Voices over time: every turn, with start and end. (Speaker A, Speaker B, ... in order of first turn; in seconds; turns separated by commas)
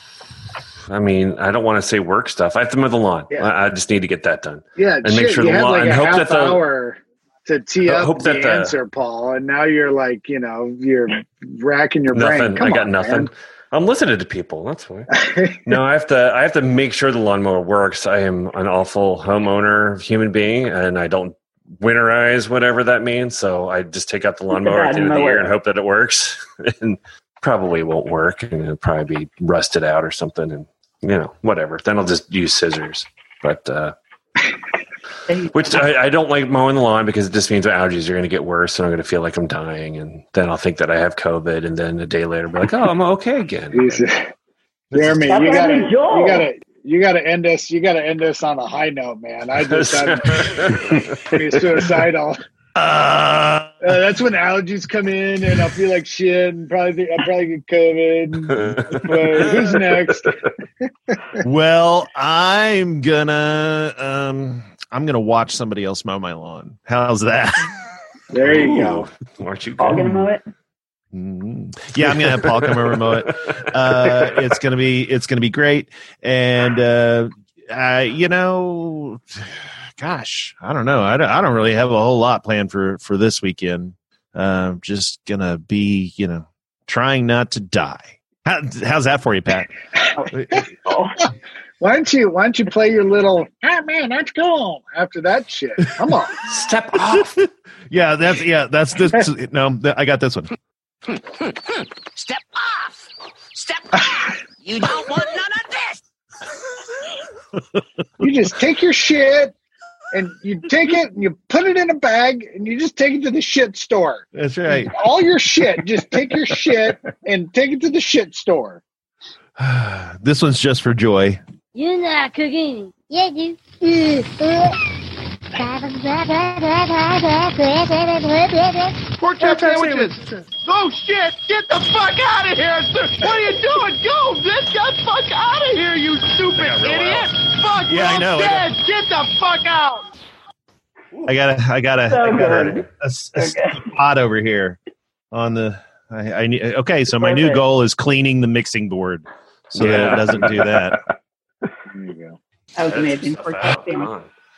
Speaker A: 0.9-6.6, Speaker B: 4.8-13.3, Speaker A: 7.9-8.8, Speaker A: 12.1-33.9, Speaker B: 15.1-15.8, Speaker C: 24.5-25.5, Speaker C: 35.3-35.8, Speaker A: 35.5-44.0, Speaker B: 43.7-44.3, Speaker B: 44.9-52.4, Speaker A: 44.9-45.3, Speaker C: 45.3-46.5, Speaker A: 49.6-51.2, Speaker D: 52.8-53.8, Speaker B: 53.8-60.4, Speaker A: 58.5-59.3, Speaker D: 61.4-67.7, Speaker B: 68.3-69.1, Speaker A: 68.4-70.1, Speaker C: 69.8-70.5, Speaker D: 69.9-70.2, Speaker D: 71.1-89.7, Speaker D: 90.3-90.6, Speaker C: 90.8-91.2, Speaker B: 91.8-96.5, Speaker A: 96.5-97.3, Speaker D: 96.9-100.5, Speaker E: 102.1-106.0, Speaker B: 108.2-109.5, Speaker B: 110.1-118.8, Speaker D: 114.3-114.9, Speaker D: 119.6-121.4, Speaker F: 121.7-124.8, Speaker F: 125.5-129.0, Speaker G: 129.2-140.0, Speaker D: 129.6-130.1, Speaker A: 136.5-137.3, Speaker D: 137.9-138.7, Speaker D: 141.2-144.8, Speaker C: 142.1-143.9, Speaker D: 145.3-151.0, Speaker C: 147.2-147.6, Speaker A: 149.7-150.5, Speaker B: 151.9-152.4, Speaker C: 152.8-154.1, Speaker A: 152.9-154.3